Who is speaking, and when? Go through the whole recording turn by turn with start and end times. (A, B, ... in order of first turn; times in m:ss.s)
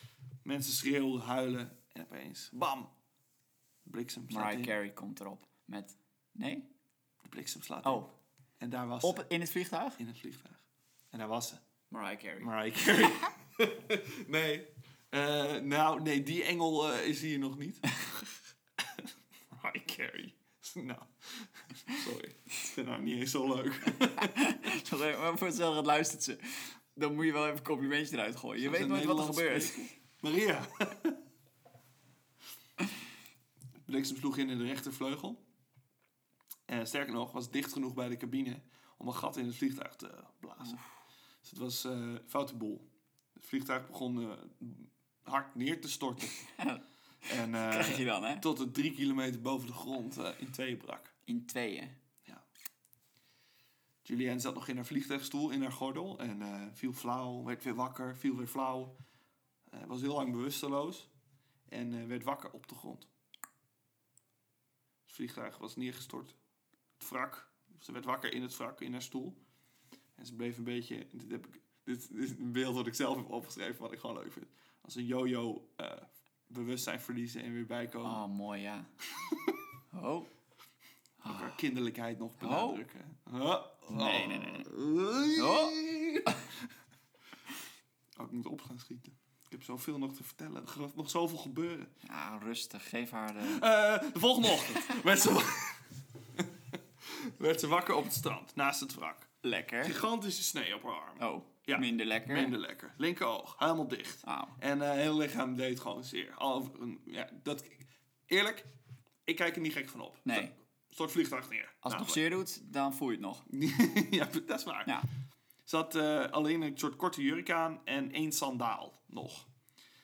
0:00.4-0:02.9 A
0:03.8-0:04.7 A
0:04.3-0:06.7 B
0:07.2-0:08.0 A
0:07.8-0:08.1 B
0:08.6-0:09.2 A
0:09.0-0:10.0 B
0:10.0-0:11.6 A
0:11.9-0:13.2 B
0:12.4-0:24.7 A
0:24.1-0:29.9 B
0:28.6-0:31.2 A
0:33.8-0:35.4 A
0:36.7-0:40.8 A
0:41.4-0:46.4 A
0:46.4-0:48.4 B
0:47.3-0:51.1 A
0:51.2-0:51.9 B
0:54.0-0:58.9 A
0:59.7-1:01.1 A
1:01.7-1:03.1 A
1:05.1-1:06.4 A
1:07.0-1:09.4 A
1:10.2-1:18.2 A
1:18.0-1:18.9 B
1:19.2-1:19.6 A
1:19.9-1:20.3 B
1:21.2-1:21.5 B
1:21.2-1:26.7 A
1:22.4-1:22.8 B
1:23.9-1:24.7 B
1:25.3-1:26.4 B
1:28.2-1:31.9 A
1:32.0-1:33.6 B
1:33.4-1:39.3 A
1:39.4-1:40.0 B
1:39.8-1:48.7 A
1:41.2-1:42.5 B
1:44.2-1:44.6 B
1:49.2-1:52.2 A
1:50.2-1:50.5 B
1:51.8-1:53.4 B
1:53.5-1:54.9 A
1:55.6-1:59.5 A